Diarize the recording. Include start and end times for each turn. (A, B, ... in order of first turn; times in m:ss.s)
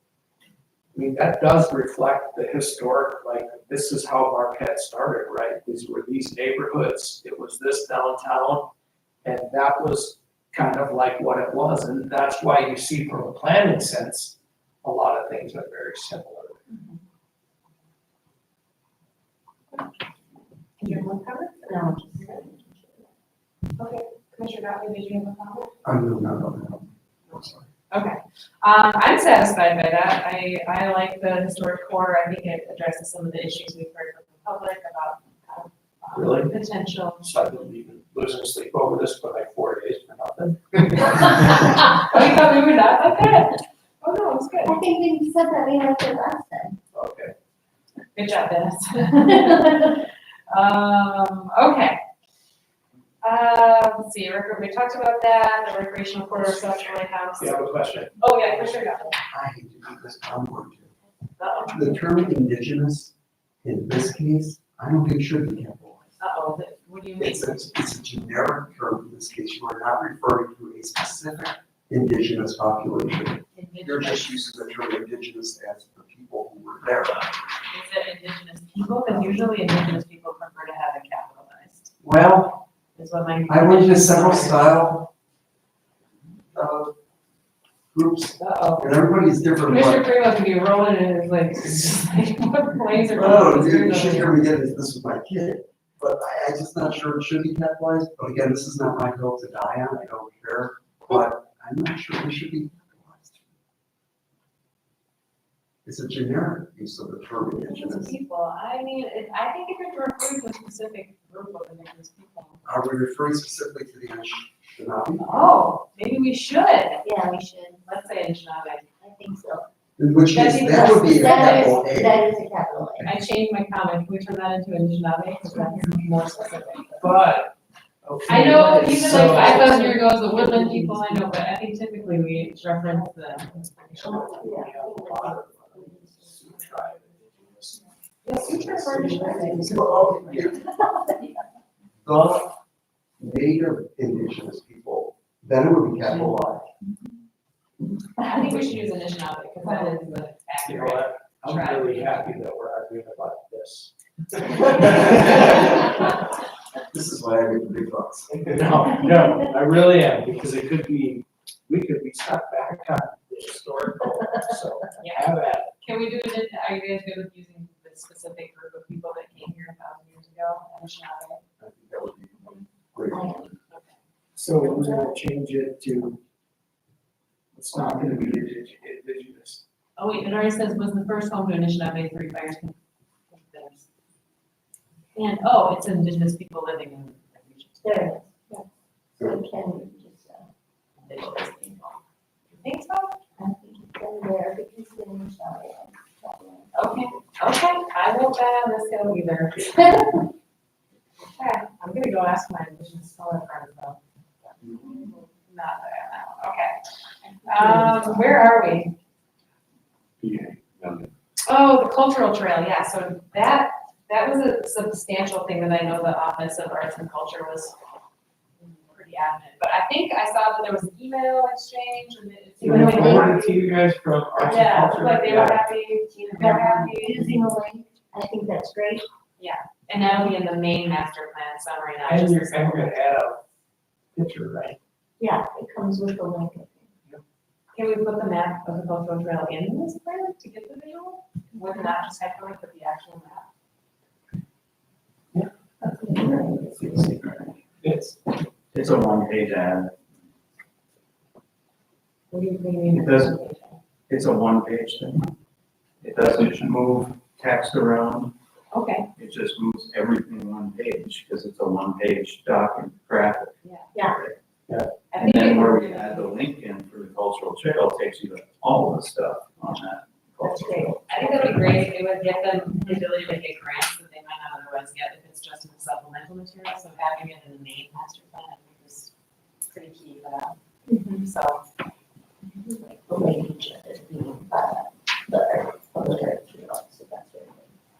0:00.9-0:08.7 A
0:09.2-0:16.6 A
0:20.8-0:22.5 B
0:21.7-0:23.1 C
0:23.8-0:25.8 B
0:25.8-0:27.6 D
0:27.9-0:37.3 B
0:36.1-0:36.5 A
0:37.2-0:41.5 A
0:41.2-0:44.8 B
0:44.6-0:46.8 C
0:46.9-0:47.3 A
0:48.1-0:52.0 B
0:53.2-0:59.2 B
0:57.4-0:58.2 A
0:59.3-1:00.9 D
1:01.4-1:02.0 B
1:01.7-1:03.1 D
1:03.6-1:06.1 D
1:06.2-1:07.7 B
1:07.2-1:17.3 D
1:13.5-1:14.5 B
1:17.7-1:21.9 B
1:22.0-1:22.6 D
1:22.9-1:24.8 B
1:23.5-1:25.1 D
1:26.5-1:26.9 D
1:27.9-1:30.1 D
1:28.4-1:28.9 B
1:29.6-1:34.4 B
1:33.1-1:43.5 D
1:45.8-1:48.1 D
1:47.6-1:52.6 B
1:52.6-1:55.2 D
1:55.2-1:57.0 B
1:57.0-1:57.9 C
1:57.8-1:58.8 B
1:59.0-1:59.7 C
2:00.0-2:02.3 D
2:00.3-2:01.7 B
2:00.9-2:03.1 C
2:03.0-2:07.2 B
2:07.0-2:07.5 A
2:08.0-2:09.8 A
2:08.2-2:14.4 B
2:08.8-2:11.3 C
2:14.0-2:17.9 A
2:14.0-2:16.2 C
2:18.2-2:19.7 B
2:18.4-2:19.3 A
2:18.8-2:21.3 C
2:19.5-2:20.6 D
2:20.1-2:20.5 A
2:22.0-2:22.5 D
2:23.2-2:26.7 D
2:28.2-2:32.2 B
2:29.6-2:29.9 C
2:30.6-2:35.7 A
2:36.9-2:38.4 D
2:38.3-2:45.7 A
2:45.0-2:45.2 B
2:45.8-2:51.4 B
2:51.6-2:53.5 D
2:53.1-2:53.5 C
2:53.7-2:54.0 B
2:54.3-2:56.2 A
2:54.8-2:55.0 C
2:57.5-2:59.6 A
3:00.0-3:02.7 B
3:03.3-3:03.8 B
3:05.1-3:08.6 B
3:07.8-3:08.5 C
3:09.2-3:10.5 C
3:11.0-3:12.0 B
3:12.5-3:13.3 B
3:13.4-3:16.7 C
3:16.7-3:20.2 B
3:21.2-3:26.8 B
3:27.4-3:28.4 C
3:27.4-3:28.9 B
3:30.2-3:31.1 A
3:31.5-3:37.7 B
3:38.6-3:43.2 B
3:42.6-3:43.5 C
3:42.6-3:45.6 A
3:44.4-3:47.5 B
3:46.1-3:49.0 C
3:49.4-3:53.0 B
3:52.1-3:53.4 A
3:54.1-3:54.8 A
3:55.2-3:56.9 C
3:57.7-4:03.4 B
4:01.6-4:01.9 C
4:05.3-4:07.2 A
4:06.1-4:07.5 E
4:07.8-4:08.2 A
4:08.7-4:10.0 E
4:12.3-4:13.8 B
4:12.9-4:13.4 E
4:14.1-4:15.3 E
4:16.0-4:18.3 E
4:18.7-4:19.1 B
4:19.2-4:24.4 E
4:23.6-4:24.0 B
4:25.1-4:26.4 B
4:25.2-4:31.8 E
4:30.4-4:31.2 C
4:31.0-4:39.1 B
4:39.7-4:40.6 B
4:40.9-4:41.2 C
4:41.1-4:41.6 B
4:42.7-4:47.7 C